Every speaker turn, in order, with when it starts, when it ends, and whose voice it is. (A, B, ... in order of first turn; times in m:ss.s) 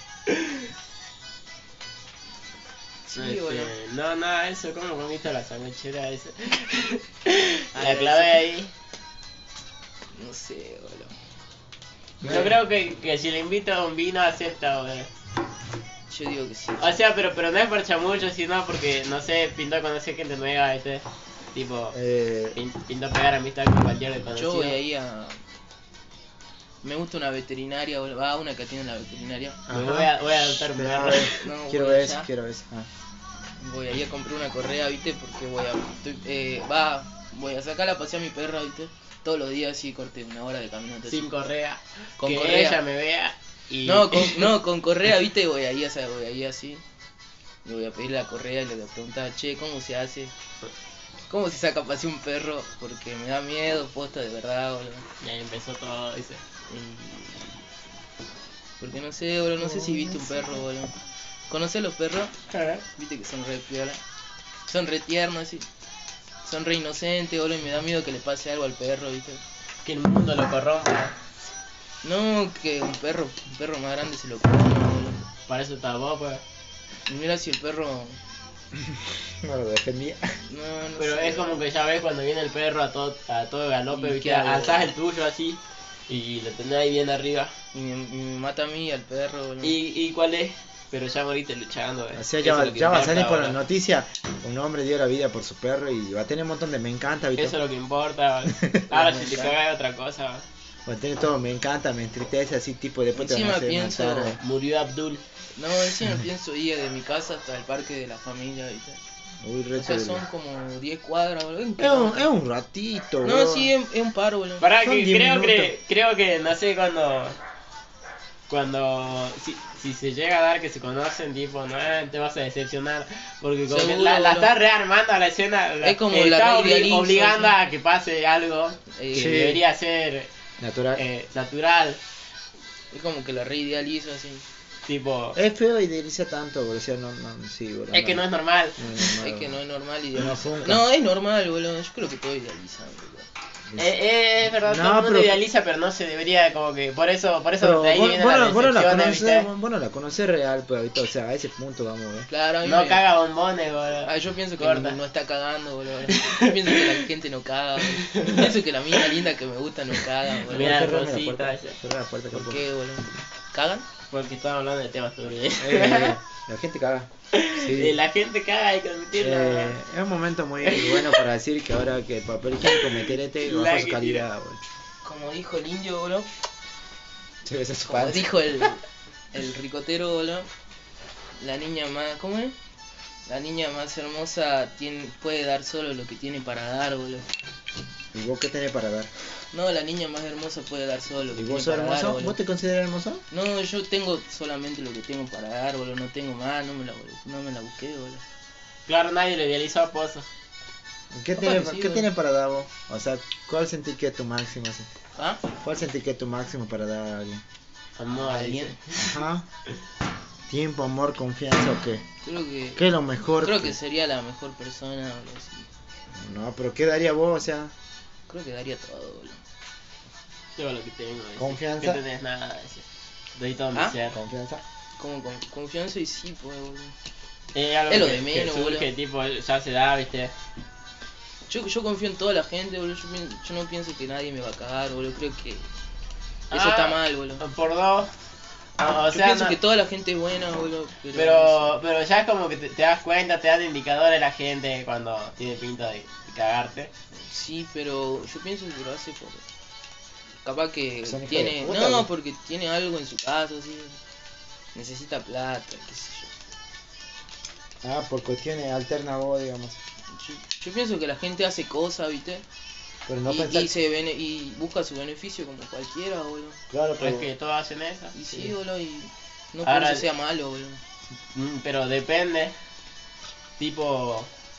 0:00.3-0:00.6 A
0:03.1-0:03.7 B
0:03.2-0:08.7 A
0:07.7-0:08.4 B
0:10.1-0:11.1 B
0:12.2-0:12.6 C
0:12.2-0:15.1 A
0:16.1-0:17.0 B
0:16.8-0:22.0 A
0:21.9-0:22.6 C
0:22.6-0:24.8 A
0:24.3-0:25.4 B
0:26.8-0:29.6 B
0:29.7-0:30.1 C
0:29.7-0:31.4 A
0:30.7-0:32.9 C
0:31.3-0:32.3 B
0:33.6-0:41.2 B
0:41.1-0:44.5 A
0:42.2-0:42.8 B
0:43.8-0:46.8 B
0:47.6-0:50.3 B
0:51.3-0:55.0 B
0:55.2-0:56.4 A
0:56.7-0:57.7 B
0:58.8-1:00.9 B
0:59.6-1:00.4 C
1:01.5-1:02.4 B
1:02.5-1:02.8 A
1:02.9-1:04.0 B
1:04.7-1:05.7 B
1:06.4-1:09.4 B
1:09.8-1:11.3 A
1:12.0-1:15.2 B
1:15.5-1:16.4 A
1:17.1-1:18.2 B
1:18.8-1:20.4 C
1:20.4-1:21.6 B
1:21.0-1:27.5 A
1:23.9-1:24.9 B
1:27.7-1:29.8 B
1:29.6-1:33.6 A
1:32.1-1:37.6 C
1:37.4-1:40.4 A
1:38.5-1:38.9 C
1:38.9-1:39.5 B
1:40.9-1:44.4 C
1:43.1-1:44.4 B
1:44.4-1:45.2 A
1:45.6-1:49.0 B
1:49.4-1:50.2 C
1:49.7-1:52.3 B
1:51.8-1:53.7 C
1:53.2-1:54.6 B
1:54.6-1:57.4 A
1:54.8-1:55.8 C
1:58.5-2:10.3 A
2:03.7-2:04.5 B
2:05.8-2:07.5 B
2:08.9-2:09.5 B
2:09.1-2:09.6 C
2:10.6-2:11.0 C
2:10.9-2:12.0 A
2:12.9-2:14.4 B
2:14.9-2:15.4 A
2:15.4-2:18.2 C
2:17.9-2:18.8 A
2:18.8-2:19.6 C
2:19.0-2:23.3 B
2:20.1-2:20.8 C
2:23.8-2:29.5 A
2:24.5-2:25.4 C
2:27.6-2:32.3 C
2:32.3-2:33.0 B
2:32.6-2:35.0 A
2:34.0-2:40.8 B
2:36.1-2:37.0 A
2:38.0-2:38.5 A
2:40.4-2:41.8 A
2:40.5-2:42.6 C
2:42.3-2:43.9 B
2:44.1-2:46.2 A
2:45.6-2:48.0 C
2:47.3-2:49.8 A
2:49.2-2:54.6 C
2:50.6-2:51.2 A
2:52.6-2:54.2 A
2:55.0-2:56.3 B
2:57.4-2:58.4 C
2:57.9-3:00.5 B
3:01.4-3:02.6 B
3:03.3-3:07.3 B
3:08.1-3:09.1 C
3:09.5-3:12.4 B
3:11.4-3:13.2 C
3:13.3-3:18.2 B
3:18.9-3:20.3 A
3:21.1-3:24.9 C
3:21.4-3:22.1 B
3:25.2-3:25.4 B
3:25.6-3:27.4 C
3:28.0-3:29.2 A
3:28.1-3:28.8 B
3:29.0-3:29.4 C
3:30.5-3:32.0 C
3:32.2-3:32.9 B
3:32.8-3:33.8 C
3:33.4-3:35.7 B
3:36.1-3:37.7 C
3:38.3-3:39.4 B
3:40.6-3:42.8 A
3:41.4-3:42.0 C
3:43.4-3:44.2 A
3:44.1-3:44.6 C
3:45.0-3:47.0 B
3:47.5-3:50.3 A
3:47.9-3:48.9 B
3:51.5-3:55.7 B
3:56.5-3:57.4 B
3:56.5-3:58.1 A
3:58.8-3:59.6 A
3:59.1-4:01.8 B
4:01.1-4:06.9 A
4:07.2-4:09.4 B
4:10.4-4:14.0 B
4:11.0-4:12.1 C
4:14.7-4:16.3 B
4:17.8-4:19.8 C
4:20.1-4:22.4 B
4:23.0-4:23.8 C
4:23.2-4:26.6 B
4:26.7-4:27.3 C
4:27.0-4:28.3 A
4:28.1-4:30.8 B
4:29.6-4:30.1 A
4:31.3-4:32.5 A
4:33.6-4:34.3 A